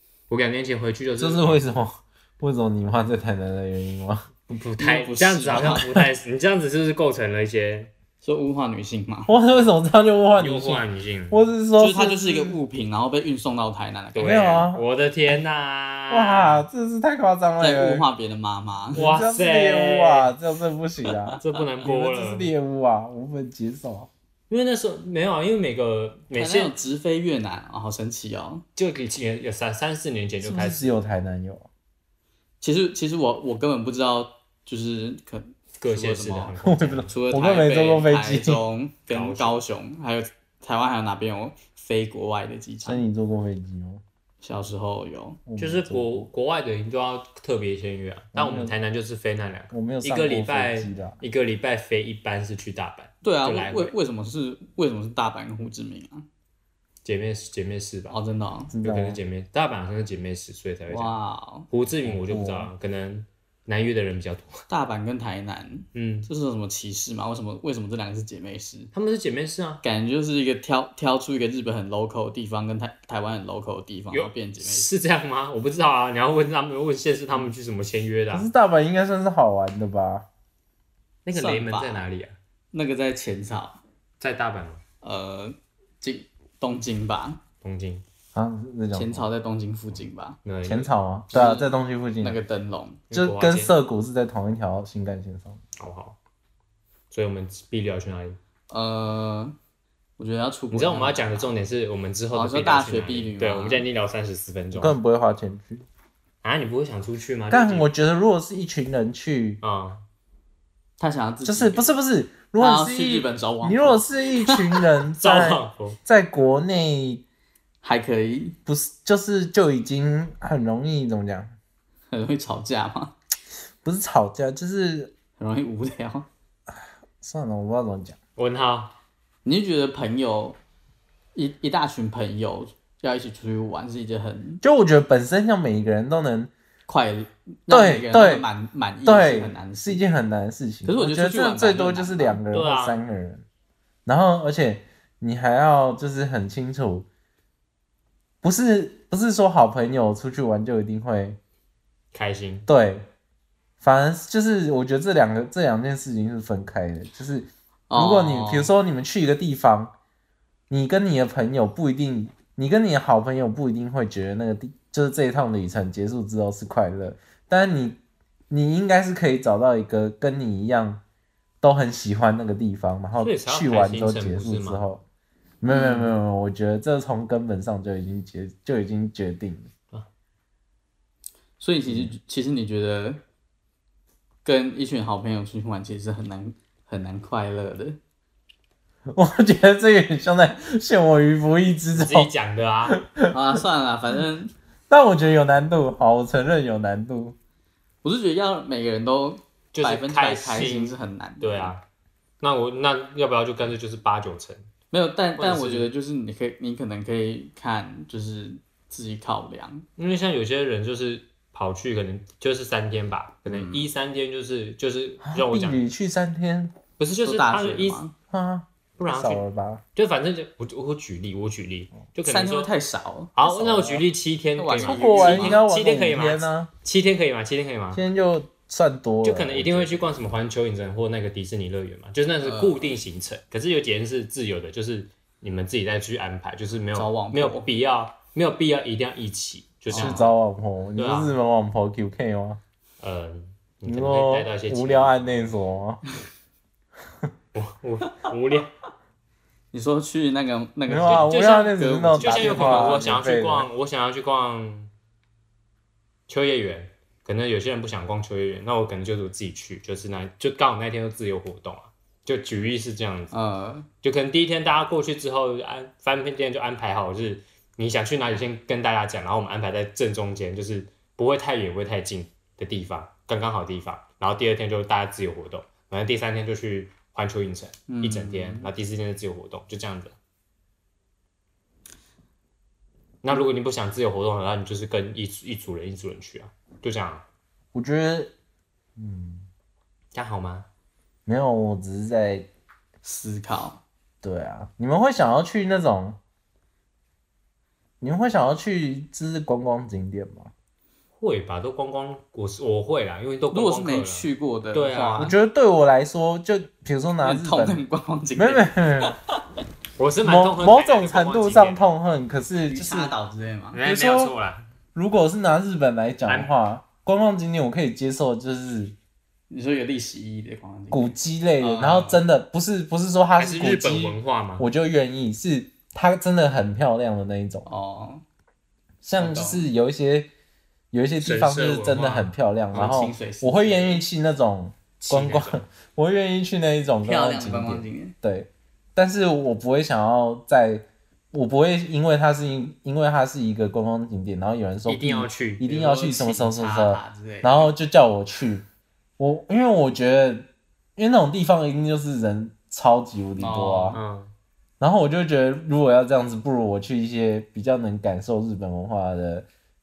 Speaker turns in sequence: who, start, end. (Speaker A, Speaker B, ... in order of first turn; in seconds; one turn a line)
Speaker A: 0.3-1.6
Speaker B: 1.2-4.3
Speaker A: 4.5-7.9
Speaker C: 4.8-5.9
Speaker C: 8.2-9.4
Speaker B: 9.3-12.6
Speaker A: 10.4-11.5
Speaker C: 11.8-14.5
Speaker A: 14.2-16.7
Speaker B: 14.2-14.8
Speaker B: 16.1-18.1
Speaker C: 17.6-19.1
Speaker A: 18.9-20.3
Speaker B: 18.9-24.1
Speaker C: 21.1-21.4
Speaker A: 21.4-22.5
Speaker A: 24.5-26.8
Speaker C: 26.3-28.6
Speaker A: 28.8-30.9
Speaker B: 30.4-31.7
Speaker C: 32.6-36.5
Speaker A: 35.8-37.2
Speaker B: 36.6-38.6
Speaker C: 37.1-43.1
Speaker A: 39.1-39.6
Speaker B: 42.8-44.0
Speaker C: 44.4-45.4
Speaker B: 45.5-46.3
Speaker A: 45.6-54.0
Speaker B: 48.3-48.8
Speaker B: 49.7-51.2
Speaker C: 53.2-56.3
Speaker A: 57.0-58.2
Speaker C: 58.1-58.7
Speaker B: 58.7-59.2
Speaker A: 58.8-61.2
Speaker C: 60.9-61.7
Speaker A: 61.7-64.7
Speaker B: 62.1-62.7
Speaker C: 64.7-68.9
Speaker A: 65.9-66.3
Speaker A: 68.9-69.8
Speaker C: 69.8-74.9
Speaker A: 74.1-78.5
Speaker B: 78.3-80.3
Speaker A: 81.3-82.4
Speaker C: 81.3-82.1
Speaker C: 82.7-83.8
Speaker A: 84.2-84.8
Speaker C: 85.0-87.4
Speaker A: 87.6-88.0
Speaker B: 88.3-89.3
Speaker C: 88.9-90.4
Speaker A: 90.5-90.9
Speaker B: 90.6-92.4
Speaker C: 91.3-91.7
Speaker C: 92.2-93.0
Speaker A: 93.1-93.7
Speaker B: 93.1-95.6
Speaker A: 95.8-96.2
Speaker A: 97.1-98.4
Speaker C: 98.7-99.6
Speaker C: 100.2-101.5
Speaker A: 100.7-105.0
Speaker C: 102.3-103.9
Speaker B: 104.7-105.9
Speaker A: 106.4-107.9
Speaker B: 107.5-109.6
Speaker A: 109.6-110.0
Speaker C: 111.0-111.9
Speaker B: 111.5-117.2
Speaker C: 112.6-114.8
Speaker A: 115.2-116.0
Speaker C: 117.8-118.6
Speaker B: 118.7-121.6
Speaker C: 122.1-123.2
Speaker B: 123.8-125.1
Speaker C: 125.4-126.3
Speaker B: 127.2-128.2
Speaker A: 128.4-128.9
Speaker C: 129.4-130.6
Speaker C: 131.3-134.6
Speaker B: 134.6-136.5
Speaker C: 136.9-140.1
Speaker B: 137.7-138.5
Speaker B: 139.0-143.4
Speaker C: 140.8-142.4
Speaker A: 142.5-143.0
Speaker B: 144.1-147.1
Speaker B: 148.4-151.4
Speaker A: 152.1-152.7
Speaker B: 152.7-153.1
Speaker B: 153.8-159.9
Speaker C: 157.9-158.7
Speaker B: 160.7-171.0
Speaker B: 171.6-175.0
Speaker A: 173.2-174.8
Speaker B: 175.6-179.7
Speaker C: 175.7-176.1
Speaker C: 181.6-183.2
Speaker C: 184.4-188.0
Speaker B: 189.1-192.3
Speaker A: 191.9-193.0
Speaker B: 192.9-193.3
Speaker C: 193.3-194.5
Speaker B: 194.9-197.4
Speaker C: 198.0-201.7
Speaker A: 199.7-201.8
Speaker A: 202.4-204.7
Speaker C: 204.9-209.9
Speaker A: 205.4-205.9
Speaker A: 210.0-215.8
Speaker C: 213.5-213.9
Speaker B: 215.2-216.8
Speaker A: 217.0-218.0
Speaker C: 217.2-218.1
Speaker B: 218.3-219.8
Speaker A: 219.0-219.4
Speaker A: 220.0-222.7
Speaker C: 222.2-224.1
Speaker A: 223.4-228.0
Speaker C: 224.6-225.6
Speaker B: 224.8-226.7
Speaker B: 227.9-230.2
Speaker A: 229.2-240.4
Speaker C: 232.4-233.0
Speaker C: 236.9-237.7
Speaker B: 239.9-242.6
Speaker C: 239.9-240.3
Speaker A: 241.0-241.4
Speaker A: 243.0-245.6
Speaker B: 243.8-246.0
Speaker A: 247.5-248.7
Speaker C: 249.7-253.2
Speaker B: 250.9-253.7
Speaker A: 251.1-251.7
Speaker A: 252.2-254.9
Speaker A: 256.3-263.3
Speaker C: 263.3-263.9
Speaker A: 264.0-280.2
Speaker C: 277.9-278.7
Speaker A: 283.2-287.3
Speaker B: 287.7-288.3
Speaker B: 289.0-289.5
Speaker A: 290.1-290.7
Speaker B: 291.3-292.5
Speaker C: 293.1-293.8
Speaker B: 294.2-296.2
Speaker B: 298.0-300.5
Speaker A: 301.2-305.4
Speaker C: 303.5-305.4
Speaker B: 305.2-307.8
Speaker C: 307.2-309.4
Speaker B: 308.4-309.1
Speaker A: 310.0-311.9
Speaker B: 310.2-313.1
Speaker C: 312.7-313.8
Speaker A: 313.7-314.6
Speaker B: 313.9-314.3
Speaker B: 314.9-319.0
Speaker A: 316.3-316.5
Speaker C: 319.5-322.2
Speaker B: 320.9-327.7
Speaker A: 323.4-324.7
Speaker C: 327.7-328.2
Speaker B: 329.0-330.3
Speaker C: 329.2-329.7
Speaker B: 330.9-348.7
Speaker A: 331.2-333.0
Speaker C: 332.7-334.0
Speaker A: 335.0-335.6
Speaker C: 337.0-338.1
Speaker A: 344.9-345.6
Speaker C: 345.6-347.7
Speaker B: 349.2-354.0
Speaker C: 353.4-354.0
Speaker A: 353.9-354.3
Speaker B: 354.8-359.5